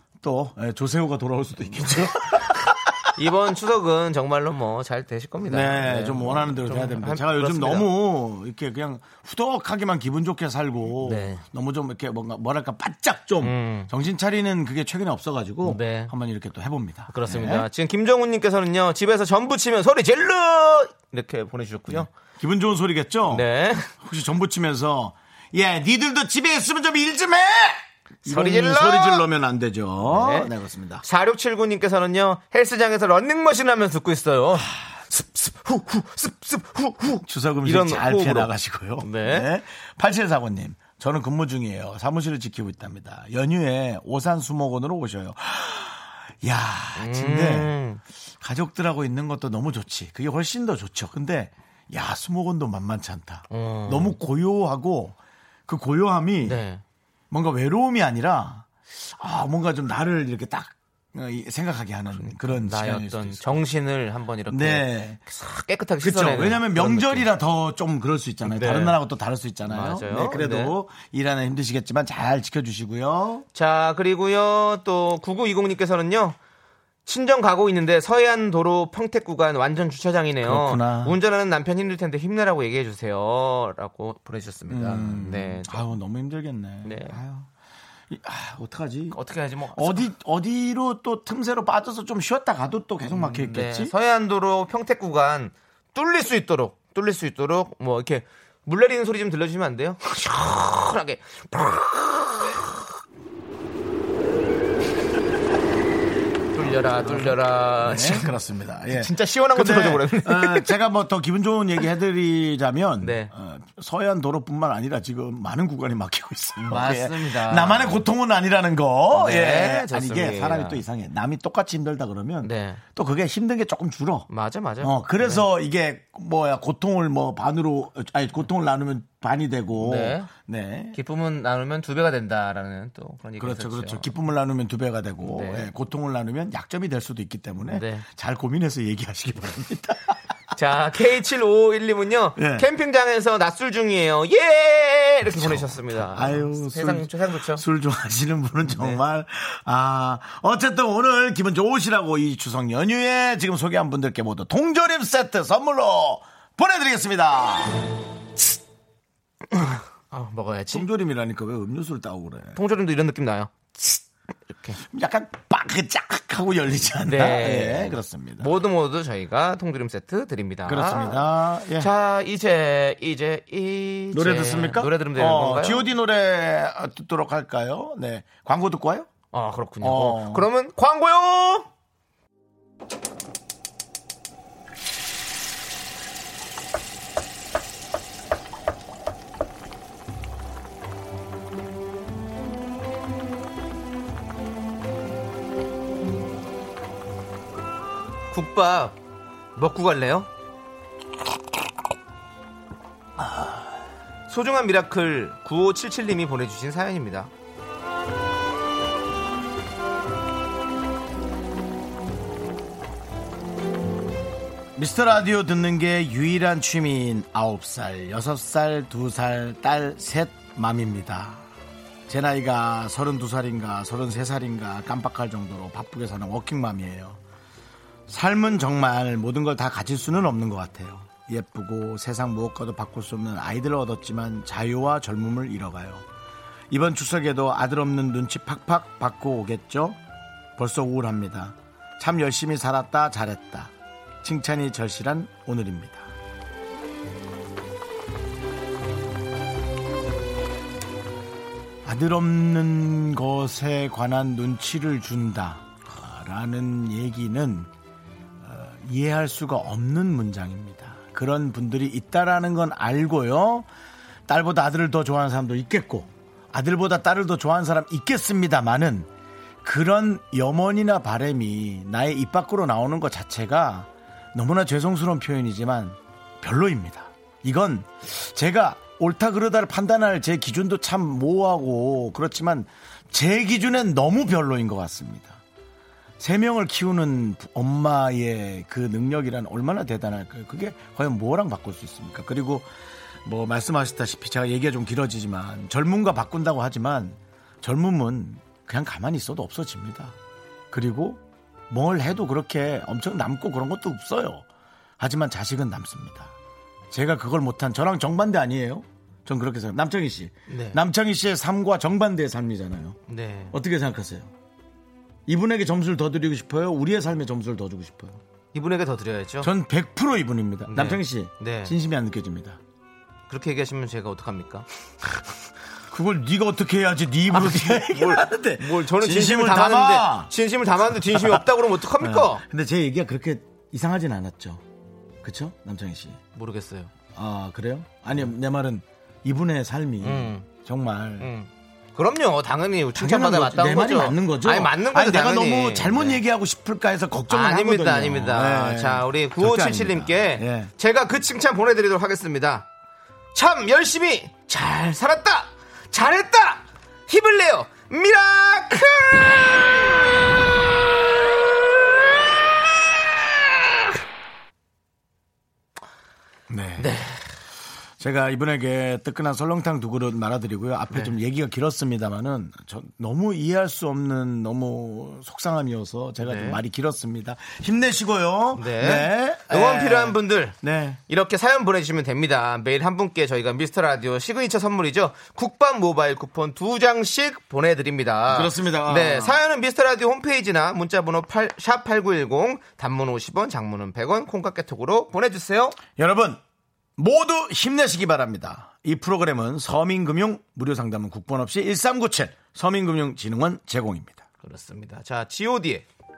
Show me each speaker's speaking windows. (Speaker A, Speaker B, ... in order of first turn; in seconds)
Speaker A: 0.2-3.1, 5.4-17.7, 21.9-31.0, 37.2-47.8, 48.4-55.2, 55.7-56.6, 57.3-63.6, 64.5-65.2, 66.0-73.5, 80.4-81.2, 84.7-87.5, 88.1-89.2, 89.7-93.9, 106.6-124.3, 124.8-131.0, 133.4-140.2, 142.4-142.7, 145.3-157.9, 160.7-162.6, 164.8-168.5, 170.7-171.9, 174.1-179.1, 179.8-180.5, 214.8-221.5, 222.1-227.2, 228.1-236.1, 236.7-240.0, 240.6-246.1, 251.8-257.7, 258.4-263.7, 264.3-269.1, 269.6-285.4, 286.2-292.7, 293.2-300.2, 300.7-304.5, 305.0-306.4, 306.9-313.0, 313.5-314.3, 315.3-318.2, 319.4-322.6, 325.9-334.6, 335.2-336.2, 337.1-341.3, 343.0-350.7, 366.5-367.0, 368.0-381.0, 388.3-389.4, 395.9-396.4, 397.0-404.2
Speaker B: 3.2-7.9, 11.0-11.4, 13.4-13.9, 15.6-16.1, 17.1-22.1, 23.3-23.9, 28.3-29.3, 30.1-30.5, 31.0-39.5, 47.0-48.0, 53.5-54.2, 56.4-56.8, 62.2-67.3, 68.4-69.0, 69.7-70.8, 73.5-76.4, 77.1-85.9, 86.8-87.2, 89.1-90.1, 93.1-102.8, 106.5-108.3, 108.9-110.7, 113.0-113.3, 116.6-118.0, 119.1-120.8, 122.4-122.8, 124.3-125.5, 129.8-130.3, 130.9-134.1, 135.2-135.7, 137.6-138.1, 140.6-147.6, 148.7-149.0, 159.5-160.9, 162.6-164.8, 167.0-171.3, 171.8-175.9, 179.3-181.7, 198.3-199.0, 199.6-200.3, 204.3-207.3, 310.5-310.8, 313.1-313.6, 318.5-319.5, 320.7-321.7, 323.3-324.7, 327.3-332.4, 336.4-336.9, 340.0-340.5, 341.2-346.2, 347.3-352.7, 353.4-359.8, 366.8-367.3, 376.2-376.6, 378.6-380.6, 381.1-395.8, 404.4-405.9